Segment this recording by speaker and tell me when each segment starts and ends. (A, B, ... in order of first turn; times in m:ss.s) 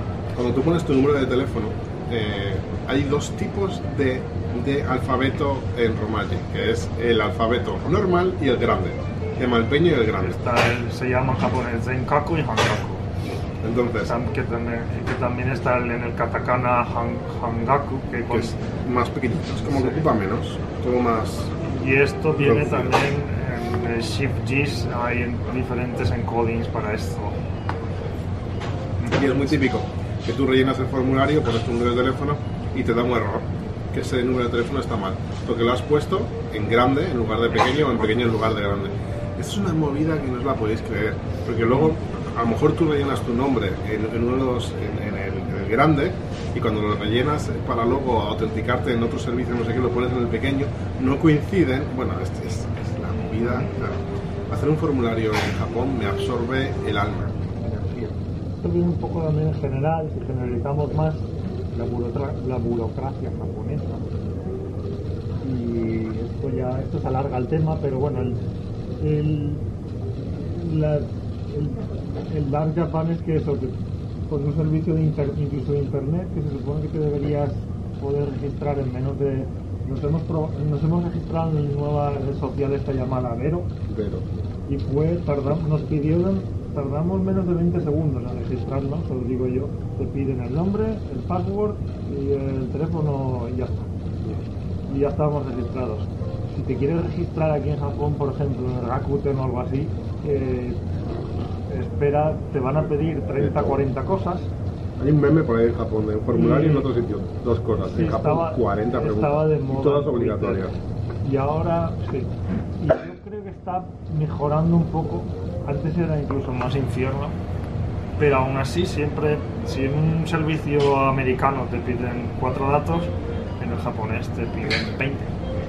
0:00.4-0:10.4 A
0:10.2-0:13.1 B
0:13.3-0:14.2 A
0:14.1-0:18.6 B
0:18.3-0:21.6 A
0:19.6-0:20.0 B
0:21.6-0:27.4 B
0:22.4-0:23.0 A
0:29.0-0:29.4 B
0:29.1-0:57.4 A
0:57.6-1:04.0 B
1:05.4-1:08.4 B
1:09.0-1:09.6 B
1:10.4-1:13.8 B
1:14.3-1:23.7 B
1:23.9-1:24.3 A
1:24.7-1:33.9 B
1:34.9-1:40.8 B
1:41.7-1:44.5 B
1:43.4-1:43.8 A
1:45.0-1:50.8 A
1:46.3-1:46.9 B
1:47.9-1:50.7 B
1:51.2-1:57.4 B
1:58.2-2:05.3 B